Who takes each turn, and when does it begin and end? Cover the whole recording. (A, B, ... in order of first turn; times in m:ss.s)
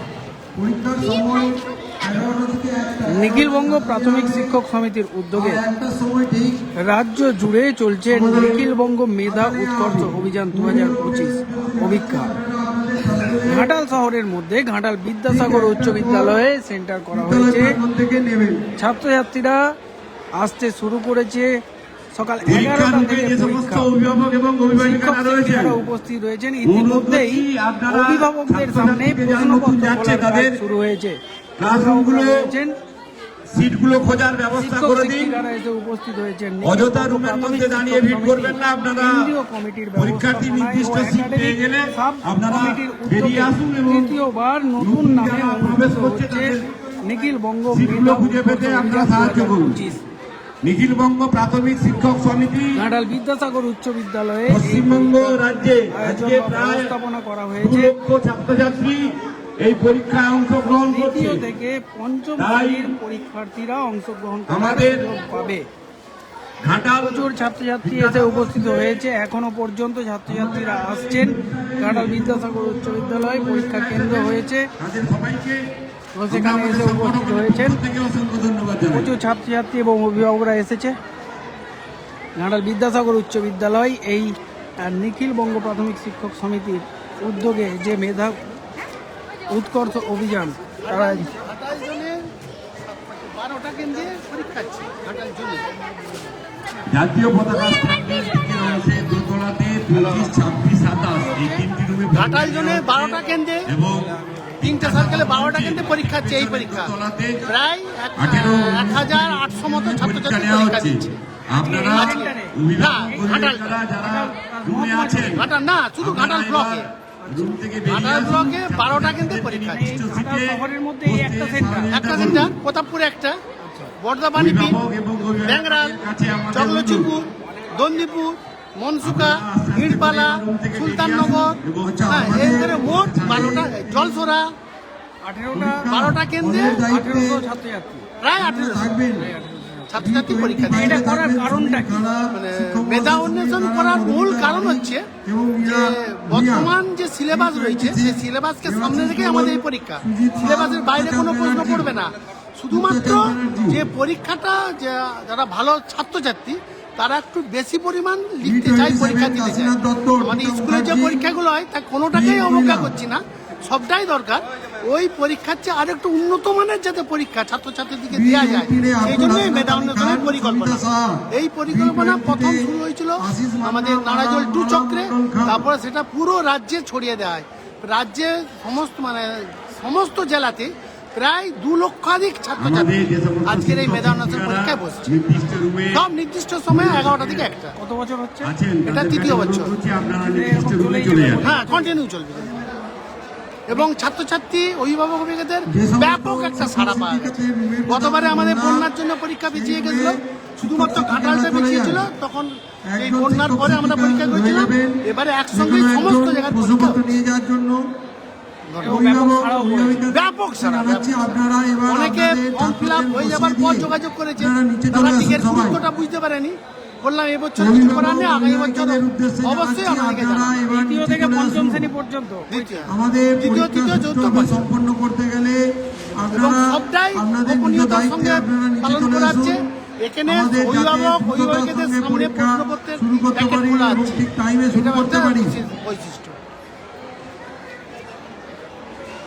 0:00.5-0:04.5 A
0:03.1-0:05.6 B
0:05.3-0:06.6 A
0:06.8-0:12.3 B
0:08.1-0:08.7 A
0:09.2-0:13.7 A
0:13.5-0:17.8 B
0:15.3-0:16.4 A
0:17.1-0:18.6 A
0:18.8-0:19.7 B
0:20.3-0:21.6 B
0:22.1-0:23.9 B
0:22.4-0:25.8 C
0:24.7-0:32.7 B
0:26.6-0:30.6 C
0:31.6-0:32.5 C
0:33.5-0:35.4 C
0:34.5-0:50.0 B
0:36.6-0:39.3 C
0:40.0-0:44.2 C
0:44.8-0:46.7 C
0:47.7-0:49.8 C
0:50.6-0:52.8 C
0:52.7-0:57.9 B
0:54.5-0:56.9 C
0:57.6-1:01.4 C
1:00.9-1:05.6 B
1:02.4-1:02.9 C
1:04.5-1:05.0 C
1:06.6-1:07.3 C
1:06.9-1:14.7 B
1:07.8-1:09.0 C
1:10.3-1:15.6 C
1:16.1-1:17.8 B
1:16.3-1:19.1 C
1:18.9-1:21.0 B
1:22.4-1:28.4 B
1:29.5-1:31.3 B
1:30.9-1:32.3 D
1:32.8-1:35.7 D
1:36.9-1:47.4 C
1:42.1-1:43.7 D
1:44.6-1:51.1 D
1:48.2-1:55.4 C
1:51.5-1:53.3 B
1:51.9-1:53.8 D
1:54.0-1:55.4 B
1:55.3-1:56.9 D
1:56.0-2:02.6 C
1:57.2-1:57.6 B
1:57.8-1:59.9 D
1:59.7-2:01.9 B
2:01.9-2:03.4 D
2:03.6-2:03.9 B
2:04.0-2:04.8 D
2:04.3-2:07.1 C
2:05.4-2:14.5 D
2:09.0-2:13.6 C
2:11.8-2:14.3 A
2:15.2-2:15.9 B
2:15.5-2:17.4 A
2:15.9-2:16.8 D
2:16.8-2:18.0 B
2:18.2-2:18.9 D
2:18.4-2:19.3 A
2:19.2-2:19.9 B
2:19.9-2:21.0 D
2:20.0-2:26.8 A
2:20.7-2:22.0 B
2:22.3-2:25.1 D
2:25.6-3:05.1 D
2:27.3-2:31.9 A
2:32.7-2:33.8 A
2:38.4-2:41.2 A
2:42.1-2:42.9 A
2:48.1-2:55.7 A
3:02.6-3:06.0 C
3:05.9-3:07.7 D
3:06.7-3:07.5 C
3:07.8-3:08.5 B
3:08.4-3:11.5 C
3:08.8-3:09.8 D
3:10.1-3:11.9 B
3:11.4-3:12.6 D
3:13.7-3:27.1 D
3:15.7-3:18.9 A
3:19.5-3:22.1 A
3:22.9-3:25.0 A
3:25.5-3:27.8 A
3:28.7-3:29.0 D
3:28.8-3:30.1 B
3:28.8-3:35.8 A
3:30.1-3:31.3 D
3:31.9-3:40.6 D
3:37.6-3:41.9 A
3:40.7-3:42.8 B
3:42.5-3:44.7 D
3:42.9-3:49.6 A
3:46.3-3:56.4 D
3:50.2-3:55.6 A